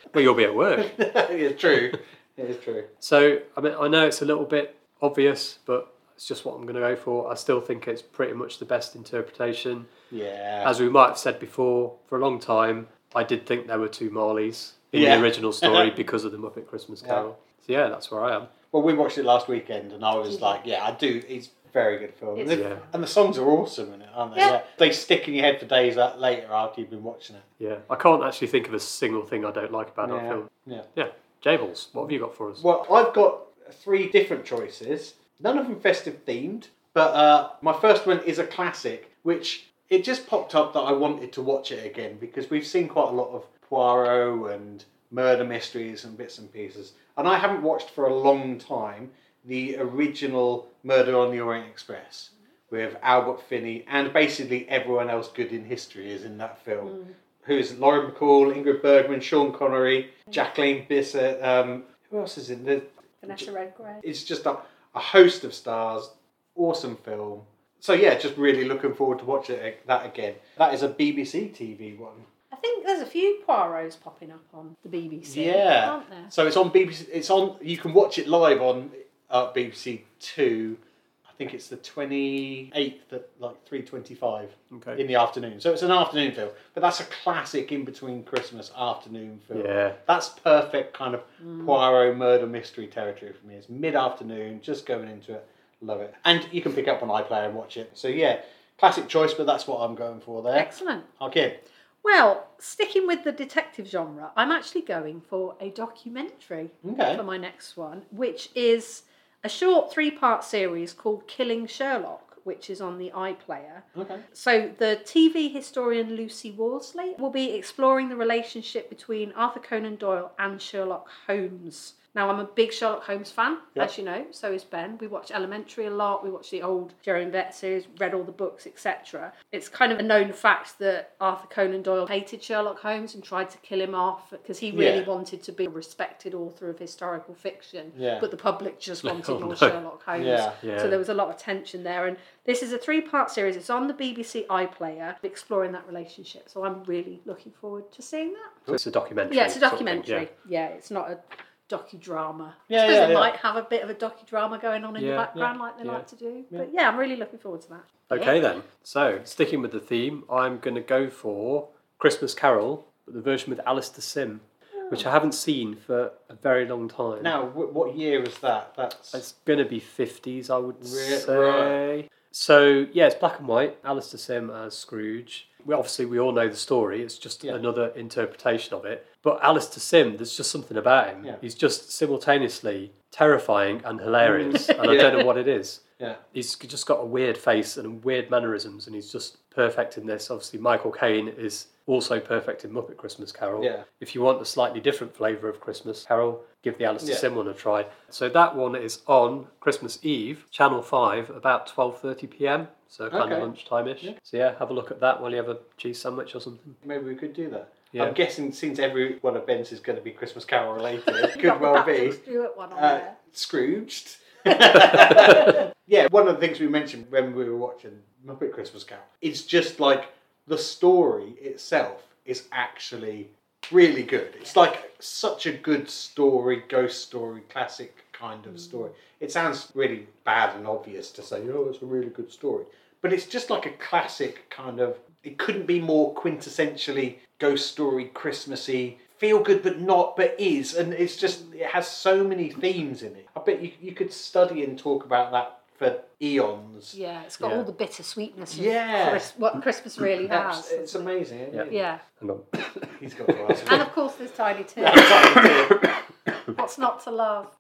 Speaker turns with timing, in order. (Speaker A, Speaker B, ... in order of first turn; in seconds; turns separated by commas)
Speaker A: 0.1-0.9, Speaker B: 0.8-2.9, Speaker A: 3.0-9.9, Speaker B: 10.1-10.7, Speaker A: 10.6-18.5, Speaker B: 14.9-15.9, Speaker B: 18.7-27.5, Speaker C: 20.3-20.6, Speaker C: 22.4-22.9, Speaker A: 22.5-22.8, Speaker A: 27.6-32.6, Speaker B: 30.0-30.9, Speaker B: 32.0-63.5, Speaker C: 56.8-57.1, Speaker C: 63.2-64.0, Speaker B: 64.0-72.2, Speaker C: 72.5-76.3, Speaker B: 75.2-101.6, Speaker A: 84.7-85.0, Speaker A: 89.5-90.0, Speaker C: 91.4-91.8, Speaker C: 100.5-101.1, Speaker C: 102.0-148.6, Speaker B: 106.8-107.2, Speaker B: 114.0-114.2, Speaker B: 134.7-135.1, Speaker B: 137.9-138.2, Speaker A: 139.0-139.8, Speaker B: 140.1-140.6, Speaker A: 140.6-141.0, Speaker A: 148.7-150.3, Speaker C: 149.3-158.4, Speaker B: 152.7-153.3, Speaker A: 155.0-155.3, Speaker A: 158.1-167.3, Speaker B: 167.2-169.2, Speaker A: 169.1-185.8, Speaker B: 170.8-171.8, Speaker B: 184.2-185.2, Speaker A: 186.3-206.8, Speaker B: 193.6-193.8, Speaker B: 197.0-197.2, Speaker B: 203.1-204.2, Speaker B: 206.8-212.2, Speaker C: 211.1-213.1, Speaker B: 212.7-247.6, Speaker A: 214.9-215.6, Speaker C: 246.9-251.1, Speaker B: 248.5-249.3, Speaker B: 250.3-251.8, Speaker C: 251.7-252.0, Speaker A: 252.2-253.8, Speaker B: 252.9-253.9, Speaker C: 253.7-255.5, Speaker B: 254.8-256.0, Speaker C: 256.5-257.5